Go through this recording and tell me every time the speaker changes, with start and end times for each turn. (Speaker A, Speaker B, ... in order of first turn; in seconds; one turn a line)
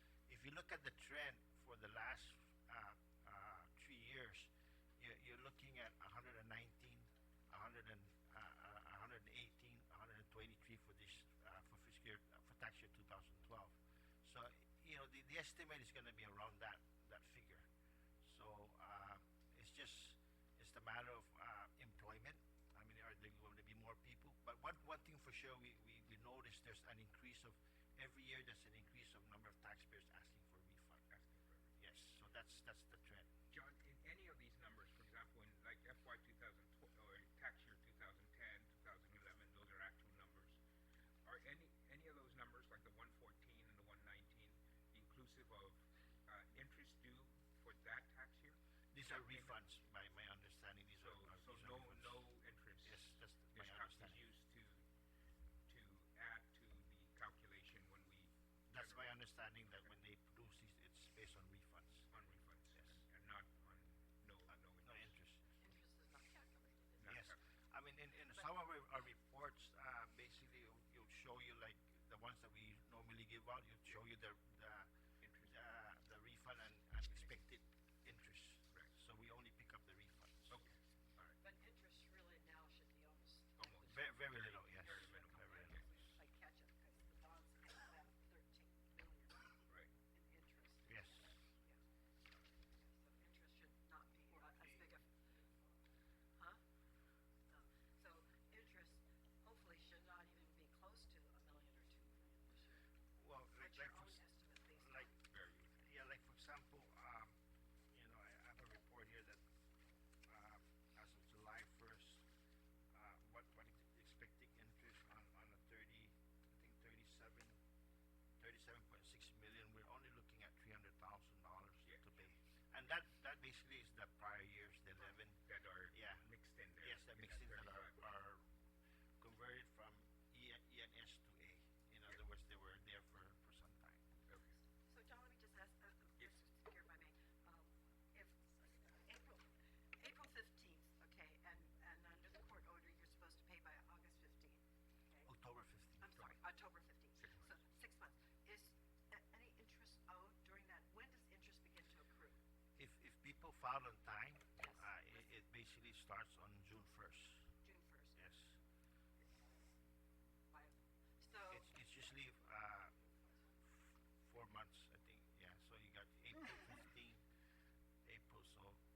Speaker A: 0.3-17.7
Speaker A: 18.2-31.1
Speaker B: 31.1-31.8
Speaker A: 31.8-33.3
Speaker B: 33.5-40.6
Speaker B: 41.2-49.6
Speaker A: 48.9-52.2
Speaker B: 51.0-54.8
Speaker A: 52.8-54.2
Speaker B: 55.7-59.2
Speaker A: 58.7-62.1
Speaker B: 62.1-65.2
Speaker A: 62.7-63.0
Speaker A: 64.6-65.6
Speaker C: 65.6-67.2
Speaker B: 67.0-67.4
Speaker A: 67.0-74.9
Speaker B: 75.2-75.6
Speaker A: 75.4-80.6
Speaker B: 80.5-81.4
Speaker C: 81.4-84.1
Speaker B: 83.6-85.9
Speaker A: 83.8-85.8
Speaker C: 84.7-91.8
Speaker A: 90.8-91.4
Speaker C: 92.7-95.1
Speaker C: 97.5-102.8
Speaker A: 103.2-104.2
Speaker C: 103.6-105.2
Speaker A: 104.7-105.1
Speaker B: 105.3-105.7
Speaker A: 105.8-107.4
Speaker A: 107.9-109.4
Speaker A: 110.3-112.2
Speaker A: 112.9-117.6
Speaker A: 118.4-128.5
Speaker B: 125.4-128.1
Speaker A: 129.2-134.0
Speaker B: 134.3-134.6
Speaker C: 134.8-145.3
Speaker A: 145.2-146.1
Speaker C: 146.0-152.4
Speaker B: 146.1-146.4
Speaker B: 147.2-147.6
Speaker A: 152.8-157.5
Speaker C: 154.6-154.9
Speaker C: 157.6-158.2
Speaker A: 158.1-158.6
Speaker C: 160.5-161.7
Speaker A: 161.5-162.9
Speaker A: 163.7-167.2
Speaker A: 168.0-168.8